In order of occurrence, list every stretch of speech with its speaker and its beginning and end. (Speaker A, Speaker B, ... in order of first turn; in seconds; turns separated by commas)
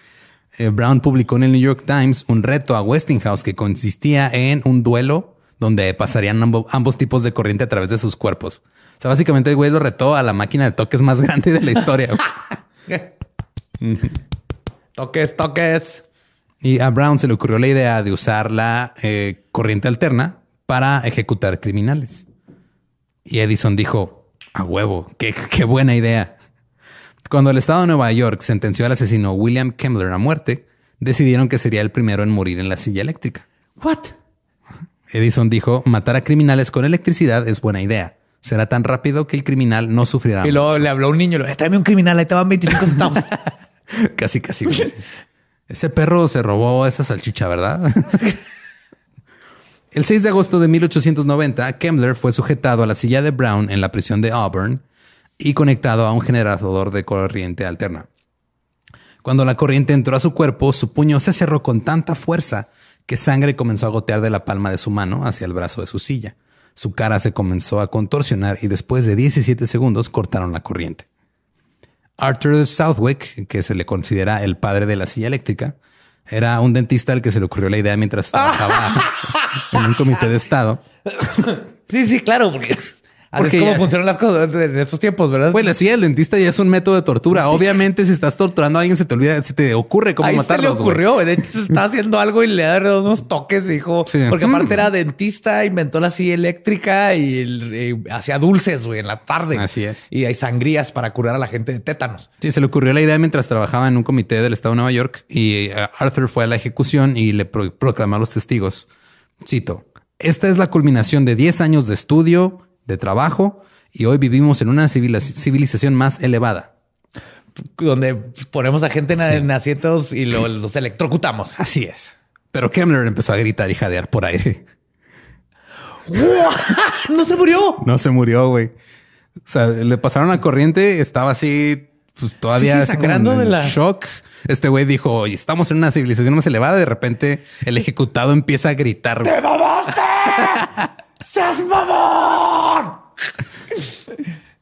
Speaker A: 0.6-12.4, Speaker A: 13.8-14.1, Speaker B: 14.9-16.0, Speaker A: 16.6-22.2, Speaker A: 23.2-26.3, Speaker A: 27.2-33.5, Speaker B: 33.8-34.1, Speaker A: 35.1-40.9, Speaker B: 40.4-43.3, Speaker A: 43.9-45.0, Speaker A: 45.7-48.3, Speaker A: 49.9-54.8, Speaker A: 55.4-58.1, Speaker A: 59.2-71.0, Speaker A: 72.2-75.8, Speaker A: 76.3-80.8, Speaker B: 78.3-80.2, Speaker B: 81.1-85.7, Speaker A: 83.3-83.9, Speaker A: 85.5-91.1, Speaker B: 87.3-87.7, Speaker B: 90.2-102.3, Speaker A: 94.0-94.8, Speaker A: 99.5-100.1, Speaker A: 102.4-108.9, Speaker A: 109.4-116.7, Speaker B: 117.7-121.6, Speaker A: 119.2-119.4, Speaker A: 121.5-124.6, Speaker B: 126.0-127.8, Speaker A: 127.8-128.7, Speaker A: 129.5-139.4, Speaker B: 132.6-133.8, Speaker B: 139.2-143.0, Speaker A: 140.4-140.9